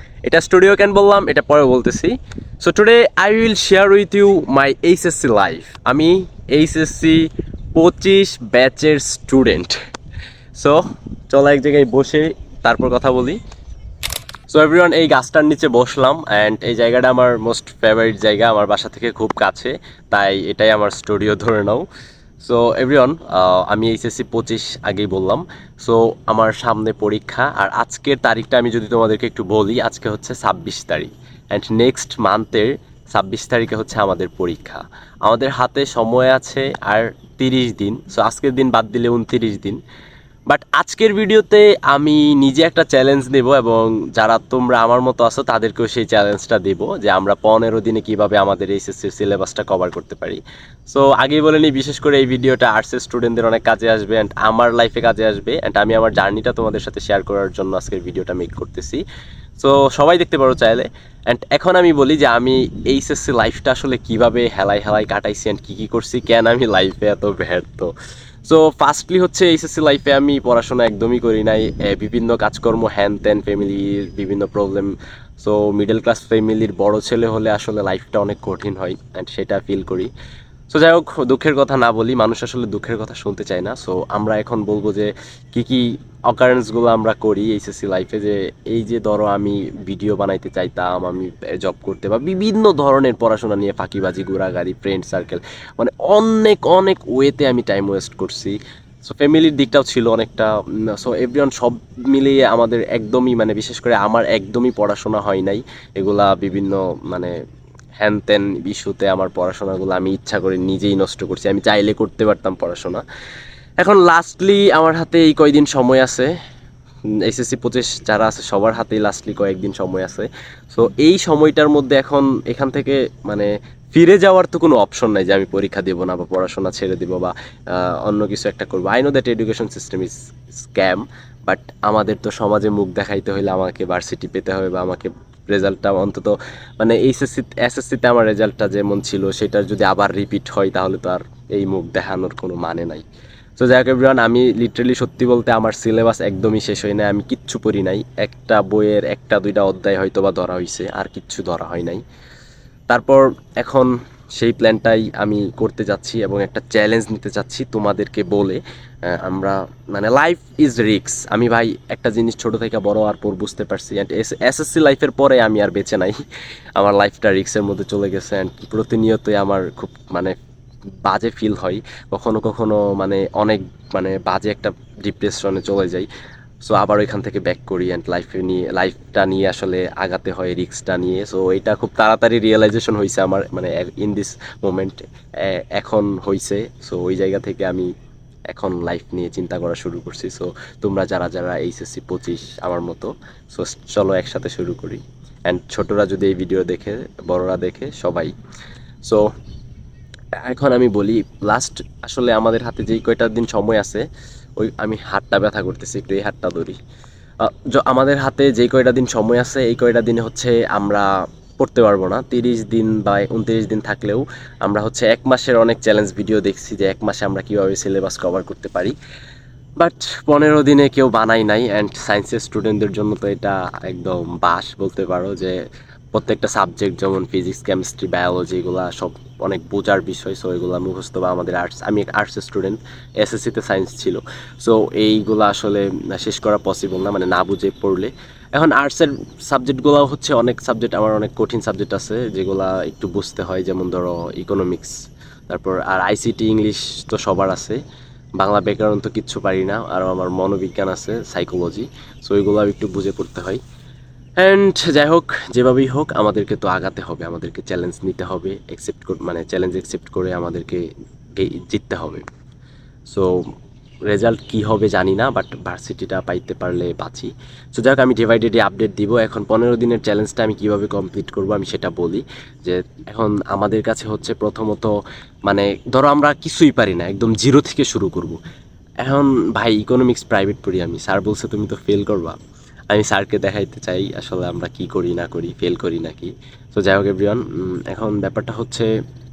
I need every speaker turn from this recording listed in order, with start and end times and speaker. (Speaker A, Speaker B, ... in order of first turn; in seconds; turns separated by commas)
Speaker A: 0.2-9.8, Speaker A: 10.6-13.4, Speaker A: 14.5-21.9, Speaker A: 22.4-39.8, Speaker A: 40.5-59.0, Speaker A: 59.6-67.9, Speaker A: 68.4-80.1, Speaker A: 80.7-107.3, Speaker A: 108.0-113.0, Speaker A: 113.8-116.3, Speaker A: 117.2-143.0, Speaker A: 143.6-152.0, Speaker A: 152.9-166.2, Speaker A: 166.8-170.3, Speaker A: 171.0-176.1, Speaker A: 176.6-187.9, Speaker A: 188.5-198.3, Speaker A: 199.0-199.3, Speaker A: 200.4-204.0, Speaker A: 204.6-206.8, Speaker A: 207.4-211.1, Speaker A: 211.6-218.9, Speaker A: 219.8-225.6, Speaker A: 226.1-244.9, Speaker A: 245.5-247.8, Speaker A: 248.4-253.6, Speaker A: 254.4-260.8, Speaker A: 261.4-262.2, Speaker A: 263.1-263.4, Speaker A: 264.1-274.9, Speaker A: 275.5-278.4, Speaker A: 279.0-282.4, Speaker A: 282.9-288.9